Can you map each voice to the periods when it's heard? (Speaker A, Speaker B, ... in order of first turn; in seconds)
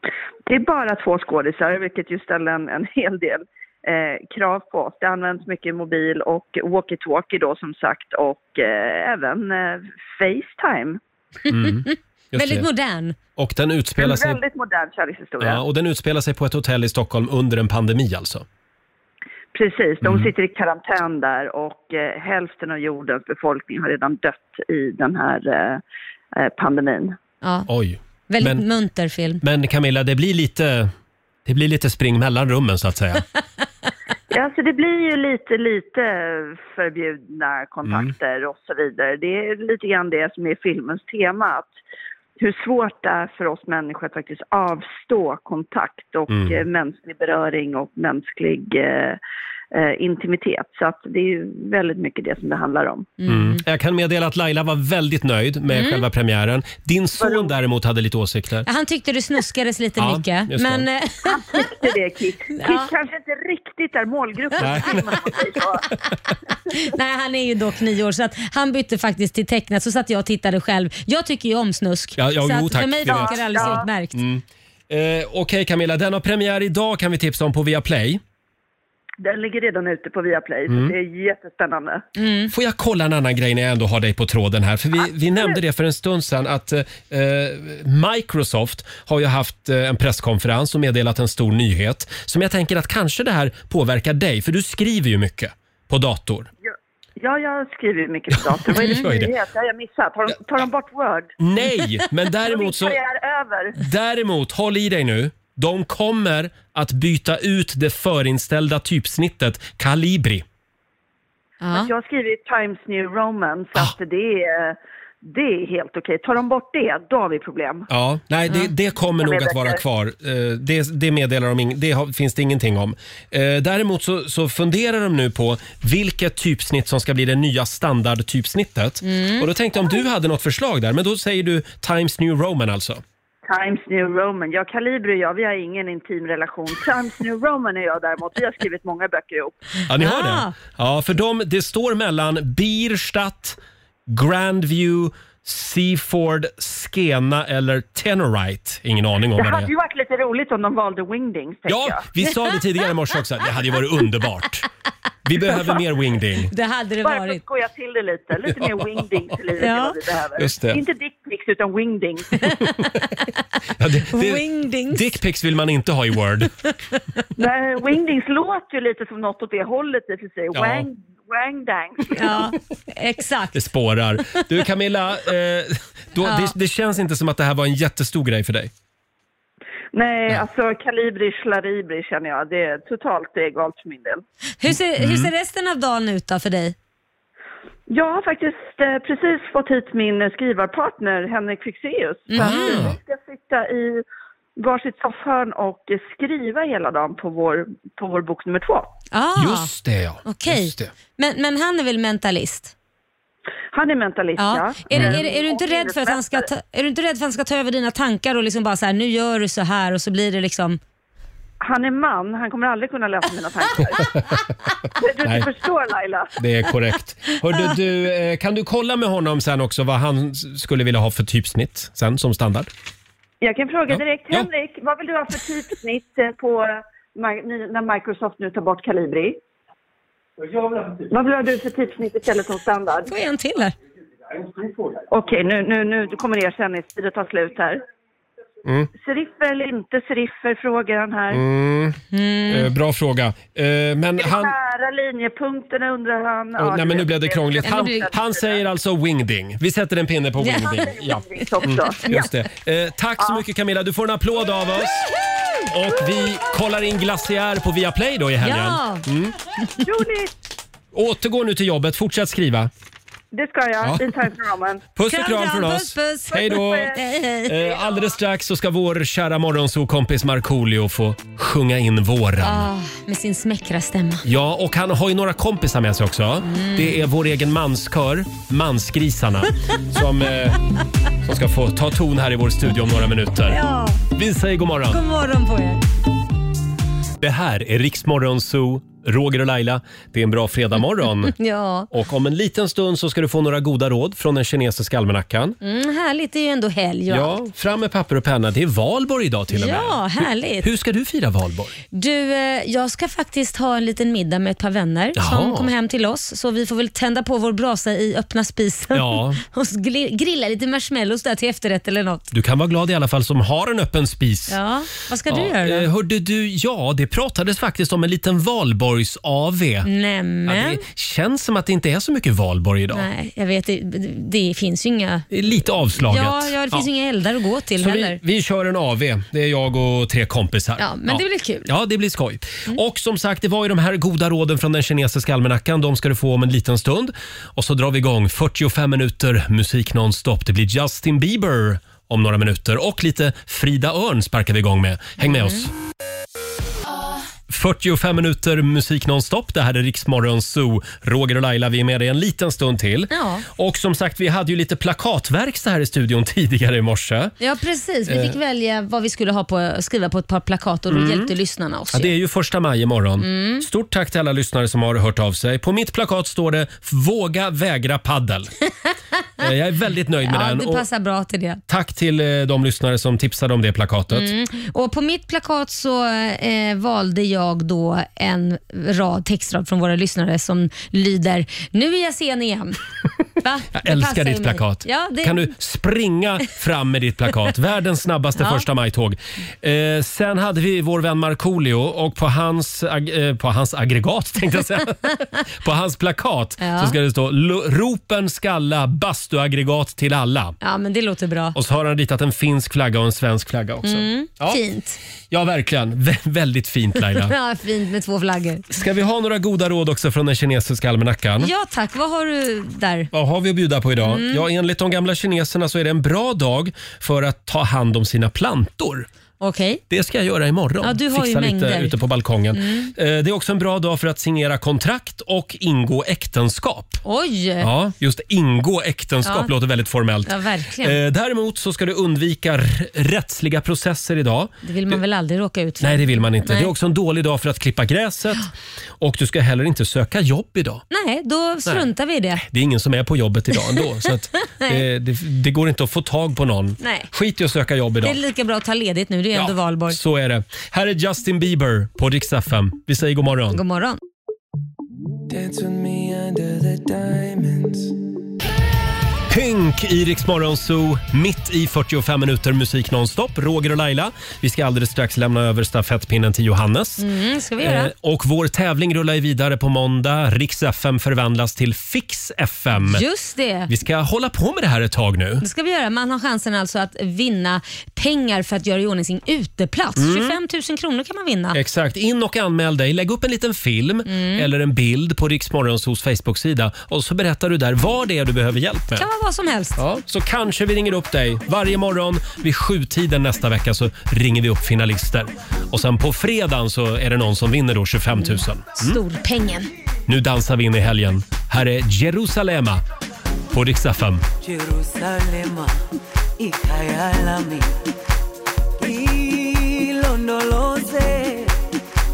Speaker A: 0.5-11.0, 14.0-15.6, 19.5-25.8, 26.4-27.2, 34.3-41.7, 42.4-49.2, 49.7-53.1, 57.2-57.5, 61.2-65.9, 73.1-73.9, 79.2-82.0, 96.6-101.3, 102.4-103.8, 111.7-117.9, 119.0-119.8, 133.4-139.6, 149.4-152.1, 157.0-162.3, 167.4-172.4, 179.9-184.2, 187.9-194.0, 194.6-198.9, 203.7-206.5, 211.6-214.3, 215.0-216.3, 223.4-229.4, 230.9-233.1, 235.1-237.8, 239.0-241.4, 244.2-248.6, 250.6-252.2, 259.8-260.3, 263.3-264.9, 266.4-267.0
Speaker B: 11.5-12.7, 13.4-14.4, 15.4-18.5, 20.0-20.3, 27.7-28.6, 29.4-30.9, 31.5-33.2, 37.9-38.1, 46.3-46.6, 53.3-58.7, 60.0-60.9, 64.6-66.2, 72.2-78.2, 80.7-80.9, 82.5-96.5, 98.4-99.3, 101.4-103.0, 103.8-110.5, 117.9-133.0, 139.9-149.7, 151.7-154.7, 155.2-156.5, 158.4-159.2, 160.4-160.8, 163.8-166.5, 170.5-170.9, 173.5-178.7, 184.7-185.3, 192.3-193.0, 199.4-200.9, 204.9-205.2, 214.0-214.4, 215.2-215.5, 216.4-222.7, 223.9-224.5, 238.7-238.9, 241.3-244.5, 246.6-259.4, 260.9-262.7, 263.8-264.1, 264.9-272.7, 274.2-280.6, 281.2-283.6, 284.1-285.0, 287.2-291.4, 291.9-295.6, 297.1-300.0, 300.6-301.8, 305.2-305.7, 308.9-309.4, 312.3-314.6, 315.3-319.9, 320.5-323.1, 325.3-326.9, 327.8-345.7, 347.5-357.3, 358.1-358.4, 360.9-361.3, 361.9-368.5, 369.4-370.9, 371.7-374.3, 383.7-400.6, 401.5-404.6, 405.3-407.3, 408.7-411.5, 413.1-419.1, 419.9-427.0, 427.6-435.0, 435.8-438.5, 439.0-440.8, 441.7-448.2, 449.3-453.6, 459.3-467.1, 467.6-473.1, 473.7-475.4, 480.0-480.4, 481.5-489.1, 489.8-499.0, 500.1-502.8, 503.5-504.3
Speaker C: 11.5-13.2, 27.4-27.7, 28.3-29.4, 53.2-53.6, 55.7-56.1, 58.6-61.7, 62.6-62.9, 64.6-64.9, 66.7-74.2, 82.2-82.5, 98.8-99.1, 111.6-111.9, 129.0-129.5, 140.0-140.5, 156.5-157.4, 159.6-160.0, 162.4-163.3, 164.1-165.1, 172.1-173.6, 176.2-176.5, 184.6-186.8, 192.3-192.9, 199.1-199.7, 200.2-202.7, 204.4-210.8, 233.1-233.8, 242.1-242.7, 247.6-248.1, 250.4-250.8, 251.9-252.3, 258.4-259.1, 265.1-267.7, 272.4-274.2, 276.4-277.0, 283.5-284.0, 284.9-285.8, 291.4-291.9, 295.6-297.4, 299.5-300.7, 301.9-312.3, 314.5-315.9, 319.8-320.8, 322.9-325.3, 326.1-328.2, 330.8-331.7, 345.2-345.6, 353.1-353.4, 357.4-362.1, 363.2-363.6, 370.2-371.6, 374.1-382.8, 383.4-385.5, 388.4-388.7, 396.6-397.0, 400.6-401.6, 403.8-405.0, 407.1-408.7, 411.4-413.1, 414.0-414.5, 419.4-419.8, 420.8-421.9, 422.5-422.9, 427.0-427.7, 429.2-429.5, 430.3-431.0, 434.6-436.7, 440.9-442.4, 444.5-444.8, 446.8-447.1, 448.0-450.0, 453.5-454.0, 467.0-467.9, 472.8-473.7, 475.4-481.6, 484.1-484.5, 489.0-489.8, 498.1-499.7
Speaker D: 455.3-457.9, 504.4-505.8, 506.4-507.7, 508.8-511.5